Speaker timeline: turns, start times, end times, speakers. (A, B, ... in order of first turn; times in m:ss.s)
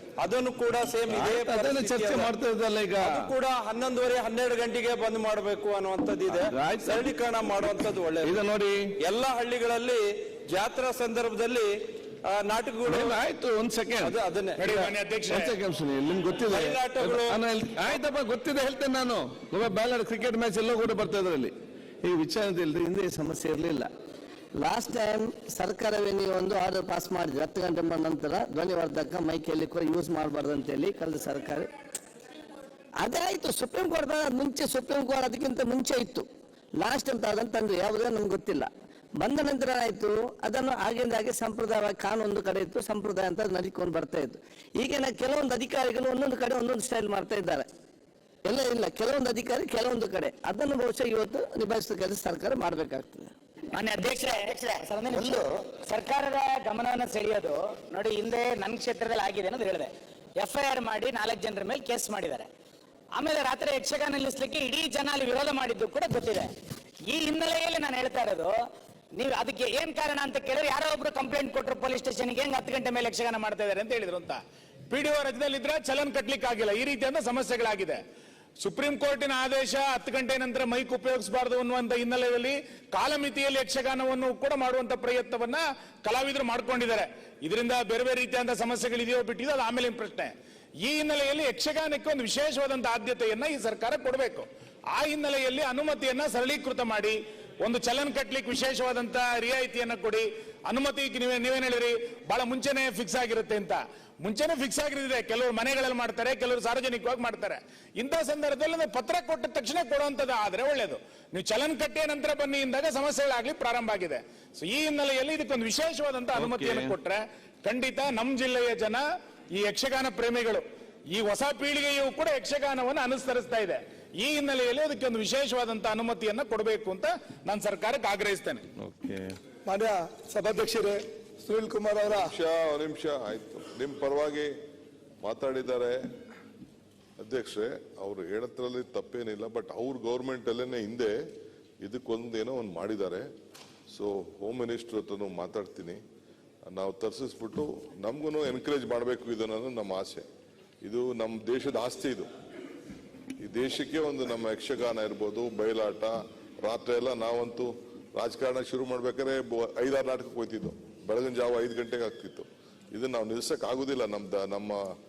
0:00.2-0:02.4 A
0:01.1-0:03.3 B
0:03.0-0:08.4 A
0:06.3-0:07.0 B
0:08.2-0:08.8 B
0:09.0-0:11.7 A
0:12.3-0:13.2 A
0:12.9-0:14.1 B
0:14.0-0:14.9 A
0:14.6-0:15.5 C
0:15.3-0:23.9 B
0:16.5-0:17.4 A
0:24.6-0:31.7 D
0:33.0-0:36.3 D
0:36.8-0:47.7 D
0:48.5-0:53.3 D
0:53.7-1:02.5 E
1:03.1-1:06.5 E
1:07.1-1:08.5 E
1:09.1-1:13.6 E
1:13.4-1:14.4 C
1:14.9-1:18.0 C
1:18.6-1:59.0 C
1:56.3-1:57.0 B
1:59.5-2:08.6 C
2:08.8-2:09.4 B
2:09.7-2:12.3 F
2:12.1-2:14.5 G
2:15.2-2:16.0 G
2:17.2-2:21.2 G
2:21.8-2:23.3 G
2:23.9-2:26.0 G
2:26.7-2:30.3 G
2:30.8-2:32.3 G
2:33.4-2:44.8 G